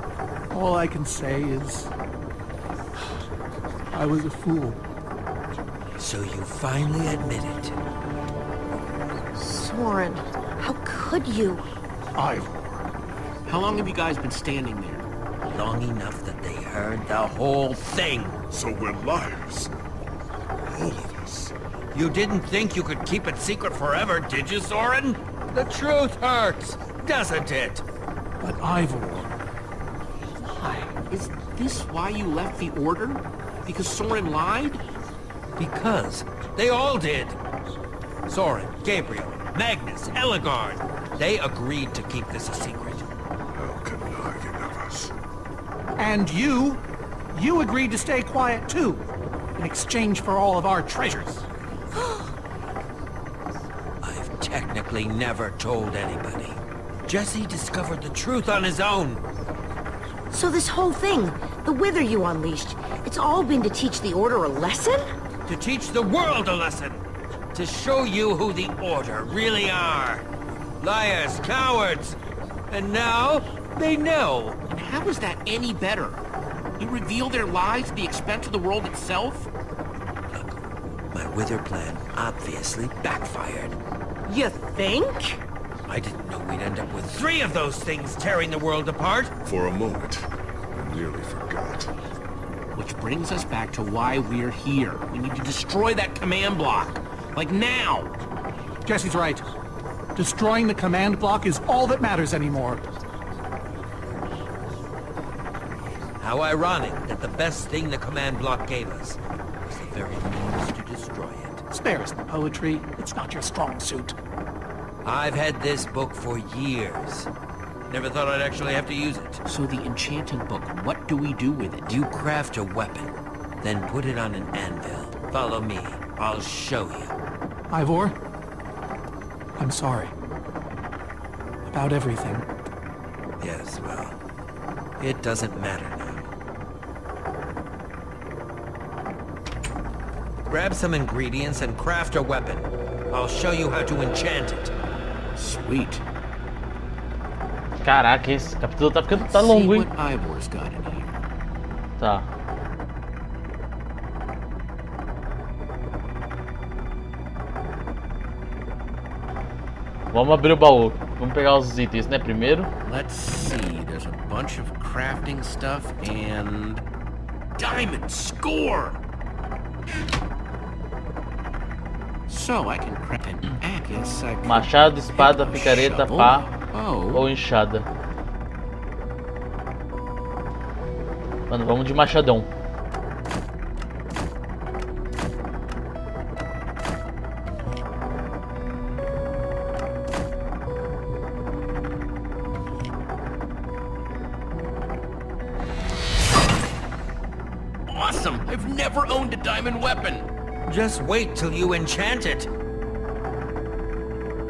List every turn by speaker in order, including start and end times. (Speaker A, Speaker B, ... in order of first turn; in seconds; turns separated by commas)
Speaker A: 0.5-1.9, Speaker A: 3.9-4.8, Speaker B: 6.0-7.8, Speaker C: 9.3-11.6, Speaker A: 12.1-12.9, Speaker D: 13.4-15.1, Speaker B: 15.5-18.4, Speaker E: 18.5-19.7, Speaker E: 20.7-21.5, Speaker B: 21.9-27.8, Speaker A: 28.4-29.4, Speaker A: 30.4-30.9, Speaker D: 31.1-34.8, Speaker B: 35.6-37.4, Speaker B: 38.3-43.1, Speaker E: 43.5-45.1, Speaker A: 46.0-51.4, Speaker C: 51.9-52.3, Speaker B: 54.0-59.2, Speaker C: 60.3-65.1, Speaker B: 65.5-70.2, Speaker B: 70.8-72.2, Speaker B: 72.7-74.6, Speaker D: 74.7-76.2, Speaker D: 76.8-79.5, Speaker B: 80.3-80.6, Speaker B: 81.1-83.8, Speaker C: 84.2-85.4, Speaker B: 85.8-89.3, Speaker E: 89.4-91.9, Speaker D: 92.7-98.2, Speaker A: 98.8-99.4, Speaker A: 100.1-102.8, Speaker B: 106.2-111.6, Speaker A: 111.7-114.2, Speaker B: 115.0-117.3, Speaker B: 117.9-119.4, Speaker D: 119.5-122.0, Speaker B: 121.8-127.1, Speaker A: 127.7-128.2, Speaker A: 129.6-130.1, Speaker A: 131.7-132.5, Speaker B: 133.4-134.2, Speaker B: 135.0-136.3, Speaker B: 140.5-144.7, Speaker D: 145.3-146.0, Speaker F: 147.8-149.9, Speaker D: 149.1-151.1, Speaker F: 152.0-152.3, Speaker F: 160.1-162.7, Speaker D: 162.8-166.8, Speaker D: 167.6-169.0, Speaker D: 172.3-177.2, Speaker F: 174.4-176.5, Speaker F: 177.1-177.8, Speaker F: 181.5-182.5, Speaker D: 197.8-200.3, Speaker B: 200.7-202.5